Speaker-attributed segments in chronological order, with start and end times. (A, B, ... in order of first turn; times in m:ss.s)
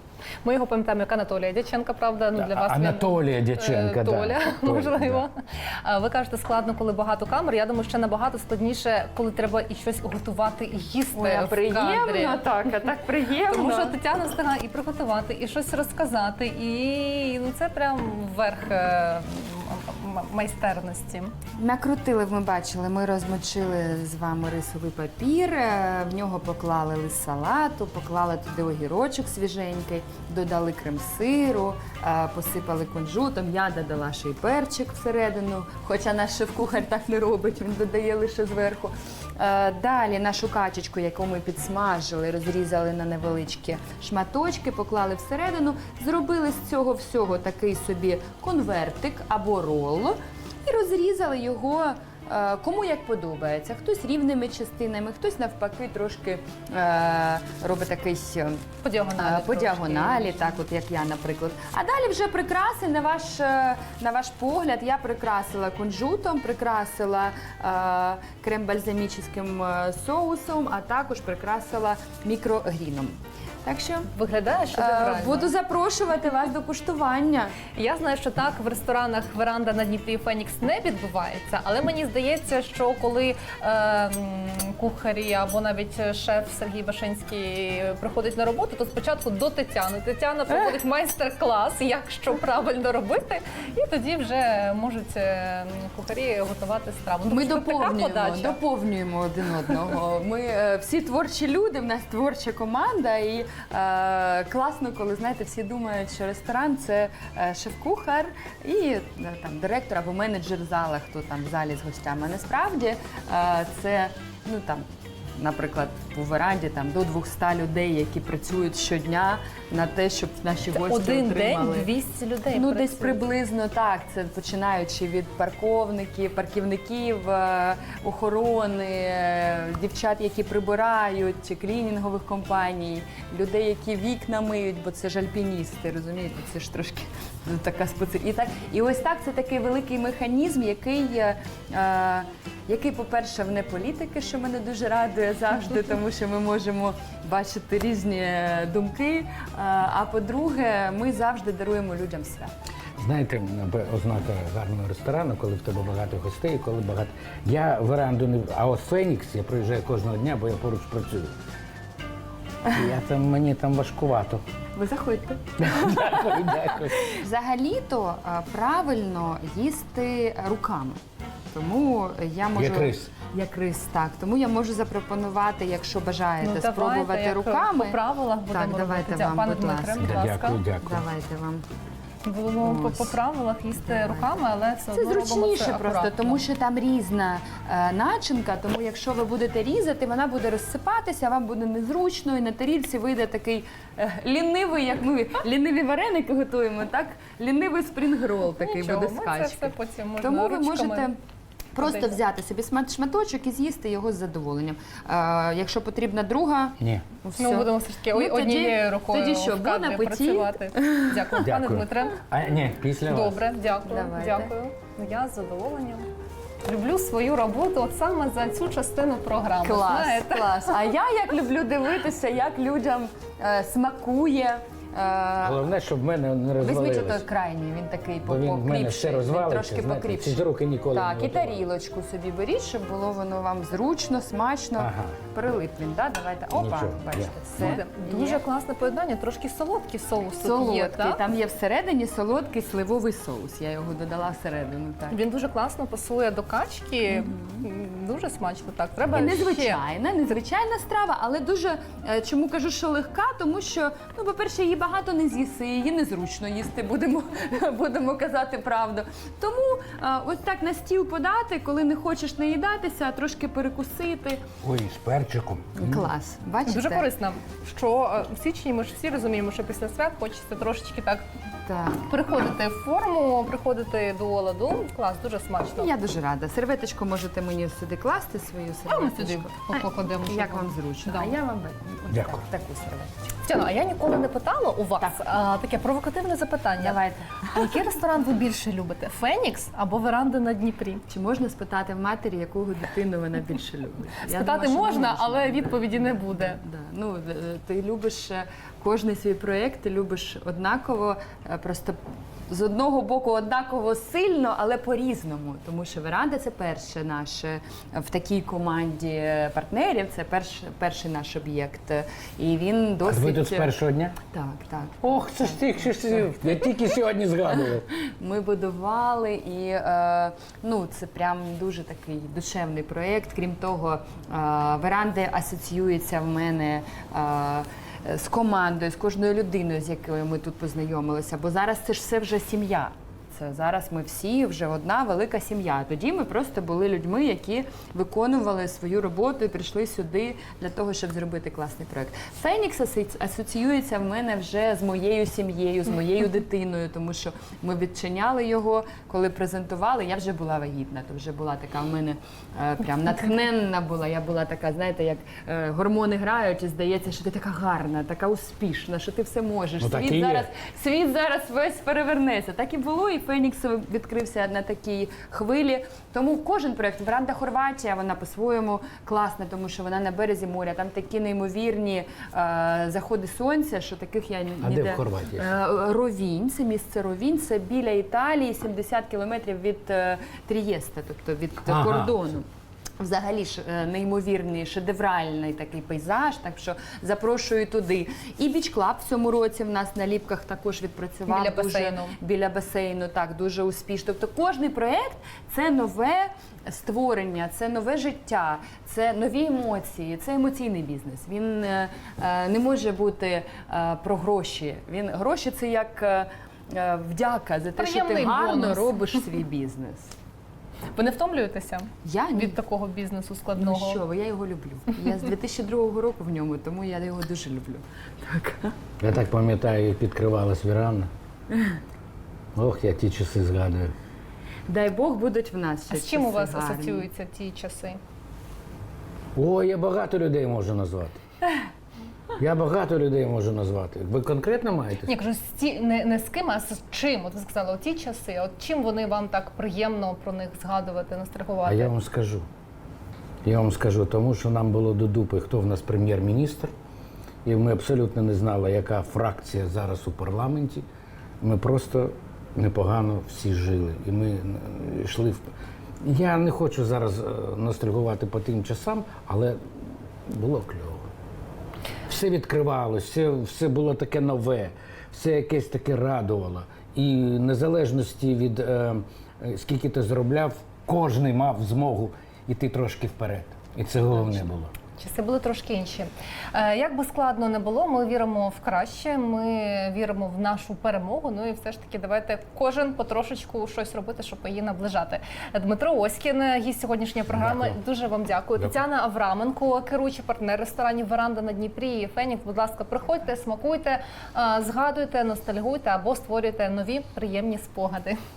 0:00.4-0:12.5 A
0:02.4-0:05.2 B
0:11.2-0:14.0 C
0:13.5-0:21.4 A
0:21.6-0:58.6 C
0:58.8-1:00.6 A
0:59.2-1:14.1 C
1:14.1-1:15.5 A
1:14.7-1:17.6 C
1:17.7-1:38.6 A
1:37.3-1:54.8 C
1:55.4-2:01.9 C
2:00.8-2:03.2 A
2:02.5-2:32.5 C
2:33.0-2:41.3 B
2:42.7-2:44.4 B
2:44.8-2:51.0 C
2:45.6-2:47.1 B
2:51.5-3:00.2 C
2:52.6-2:53.1 B
2:56.4-3:00.6 A
3:00.0-3:01.0 B
3:00.8-3:01.7 C
3:02.2-3:06.4 A
3:02.6-3:03.2 C
3:03.8-3:21.2 C
3:18.6-3:21.1 A
3:21.8-3:31.1 C
3:21.8-3:22.1 A
3:26.8-3:27.1 B
3:27.4-3:32.2 A
3:31.4-3:33.4 B
3:33.1-3:36.1 A
3:33.8-3:34.5 C
3:36.6-3:40.8 A
3:39.6-3:45.6 C
3:45.4-3:47.2 B
3:46.6-3:58.4 C
3:48.2-3:51.6 B
3:54.8-3:55.2 B
3:56.5-3:57.8 B
3:57.6-4:01.2 A
4:00.4-4:05.2 C
4:05.1-4:09.8 A
4:07.1-4:07.6 C
4:09.1-4:24.4 C
4:24.6-4:26.1 B
4:25.8-4:27.1 C
4:26.6-4:31.2 A
4:31.7-4:32.0 C
4:32.0-4:35.9 A
4:35.8-4:43.3 C
4:38.9-4:41.4 A
4:42.1-4:42.4 B
4:43.4-4:51.0 A
4:46.8-4:47.8 C
4:51.1-5:13.8 C
4:54.2-4:56.6 A
5:13.0-5:14.2 B
5:14.3-5:15.6 C
5:15.0-5:17.9 B
5:18.2-6:22.5 C
5:59.8-6:00.5 B
6:14.6-6:15.5 B
6:21.7-6:22.3 B
6:23.0-6:50.2 C
6:31.3-6:32.2 A
6:47.8-6:49.2 A
6:51.0-6:54.0 A
6:52.0-6:52.6 C
6:53.6-6:58.8 C
6:59.0-7:01.1 B
7:01.5-7:01.8 C
7:02.6-7:03.9 B
7:04.7-7:07.1 C
7:05.9-7:08.0 A
7:09.4-7:11.2 B
7:12.4-7:15.1 B
7:15.0-7:21.9 A
7:21.7-7:22.5 B
7:23.4-7:26.7 B
7:27.4-7:30.8 B
7:31.4-7:35.5 B
7:36.0-7:39.6 B
7:40.3-7:41.1 B
7:42.1-7:54.7 B
7:55.0-8:18.2 A
8:07.3-8:07.8 B